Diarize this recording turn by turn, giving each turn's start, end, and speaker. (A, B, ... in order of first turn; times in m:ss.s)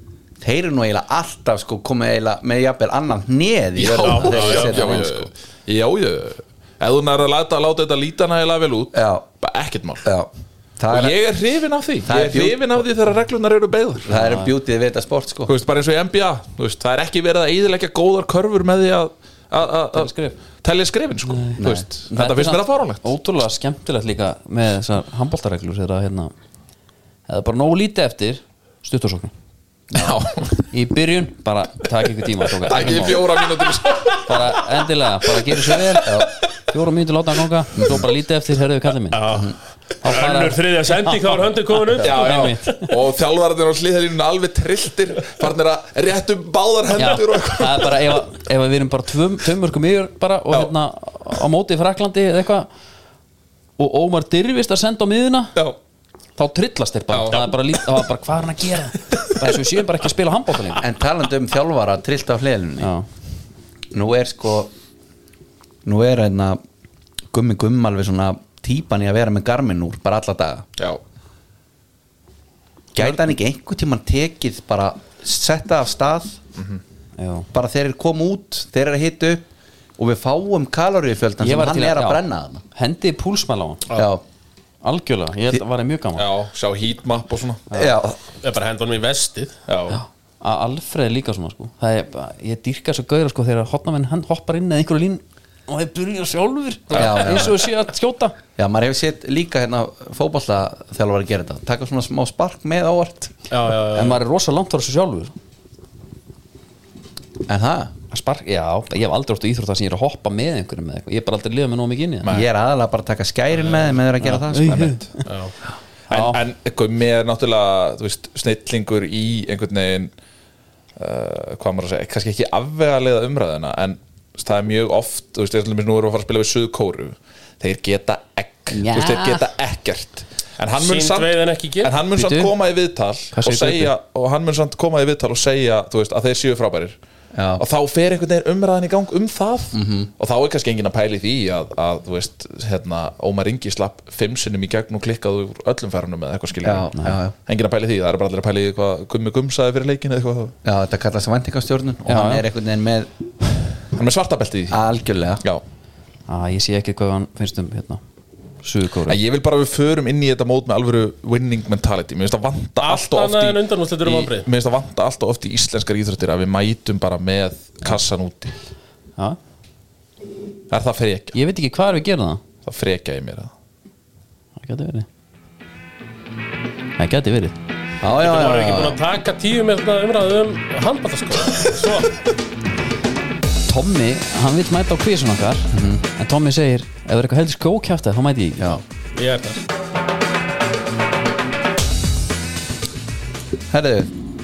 0:00.4-0:05.3 A
0:03.8-0:10.1 B
0:03.9-0:04.9 C
0:08.9-0:09.2 A
0:10.0-0:11.2 A
0:10.9-0:14.1 B
0:12.0-0:12.6 A
0:14.1-0:15.5 A
0:14.1-0:14.5 D
0:15.5-0:23.1 B
0:19.9-0:20.4 D
0:21.2-0:26.3 D
0:21.6-0:21.9 A
0:27.3-0:29.3 D
0:29.9-0:30.6 B
0:30.0-0:33.3 D
0:32.6-0:34.6 B
0:33.2-0:34.0 C
0:34.2-0:39.4 D
0:36.0-0:36.3 A
0:39.1-0:42.6 C
0:40.0-0:42.9 D
0:42.0-0:48.2 B
0:47.0-0:52.7 D
0:53.8-0:55.6 D
0:56.4-1:00.9 D
0:57.1-0:57.5 B
1:00.8-1:02.9 A
1:02.8-1:03.1 D
1:03.9-1:04.7 A
1:05.8-1:06.6 A
1:07.3-1:10.7 A
1:12.9-1:16.4 A
1:17.2-1:17.5 D
1:17.5-1:19.5 A
1:20.0-1:22.6 A
1:21.4-1:22.2 D
1:22.7-1:23.9 D
1:24.0-1:24.2 A
1:24.8-1:26.3 D
1:26.2-1:27.7 B
1:27.7-1:28.0 D
1:27.7-1:28.2 A
1:28.4-1:29.6 C
1:29.7-1:30.0 B
1:29.9-1:38.4 D
1:36.9-1:37.6 A
1:36.9-1:37.5 C
1:38.6-1:43.4 A
1:43.5-1:44.2 C
1:43.9-1:45.3 D
1:47.5-1:47.9 A
1:48.1-1:52.3 D
1:52.2-1:52.5 B
1:52.3-1:54.9 A
1:54.2-1:55.3 D
1:54.6-1:55.1 B
1:55.3-1:55.5 C
1:56.1-2:00.1 B
1:56.1-1:56.4 D
2:01.0-2:17.0 B
2:08.7-2:09.5 D
2:10.8-2:12.0 C
2:12.2-2:12.6 D
2:13.3-2:13.9 D
2:17.3-2:17.6 A
2:17.6-2:26.9 B
2:19.7-2:20.1 A
2:26.6-2:27.4 A
2:27.5-2:30.6 B
2:30.6-2:33.1 A
2:32.1-2:32.5 D
2:33.9-2:34.8 B
2:34.7-2:35.4 A
2:36.3-2:38.0 D
2:38.6-2:39.2 D
2:39.1-2:48.6 B
2:42.8-2:44.5 C
2:50.7-2:51.4 B
2:51.3-2:52.4 D
2:52.6-2:53.5 B
2:54.6-2:55.1 D
2:57.0-2:57.6 D
2:58.0-2:59.0 A
2:58.1-3:02.1 C
3:03.7-3:08.8 D
3:05.7-3:06.0 A
3:09.1-3:09.6 C
3:13.7-3:14.1 A